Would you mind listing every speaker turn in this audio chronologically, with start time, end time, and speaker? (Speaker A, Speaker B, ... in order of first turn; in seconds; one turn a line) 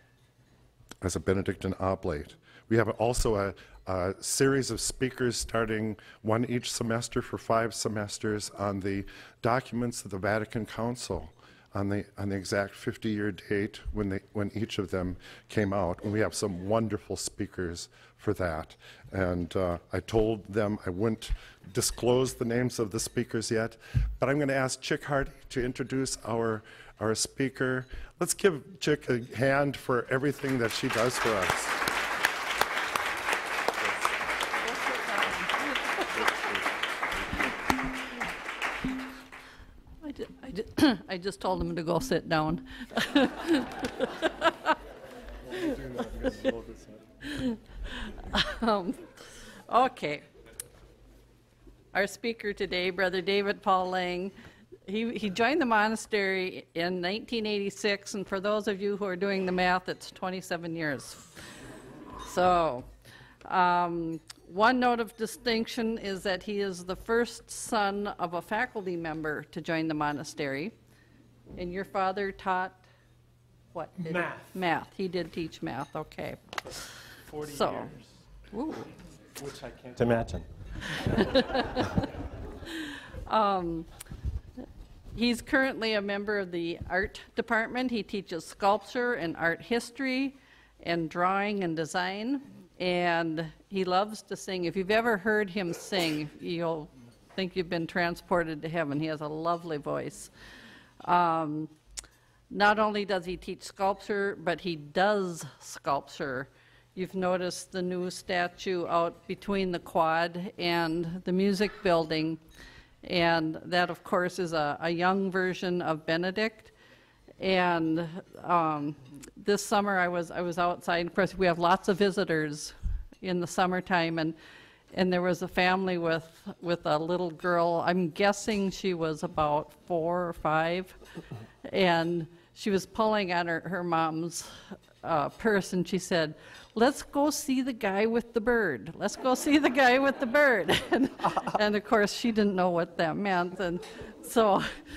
Speaker A: 1.0-31.9
Speaker B: 34.7-35.5
Speaker B: 40.0-44.7
Speaker C: 45.6-47.0
Speaker B: 47.2-49.0
Speaker B: 49.7-50.2
Speaker B: 51.9-54.3
Speaker B: 54.9-61.3
Speaker B: 62.2-62.9
Speaker B: 63.4-70.7
Speaker B: 71.5-72.8
Speaker B: 73.7-76.4
Speaker C: 74.1-74.5
Speaker C: 77.3-78.0
Speaker B: 77.4-77.9
Speaker B: 78.5-78.9
Speaker C: 79.4-80.5
Speaker B: 81.1-82.0
Speaker B: 82.7-83.9
Speaker B: 85.1-100.3
Speaker B: 101.0-101.7
Speaker B: 102.5-112.4
Speaker B: 113.0-116.7
Speaker B: 117.4-124.3
Speaker B: 124.9-130.9
Speaker B: 131.6-134.5
Speaker B: 135.0-144.7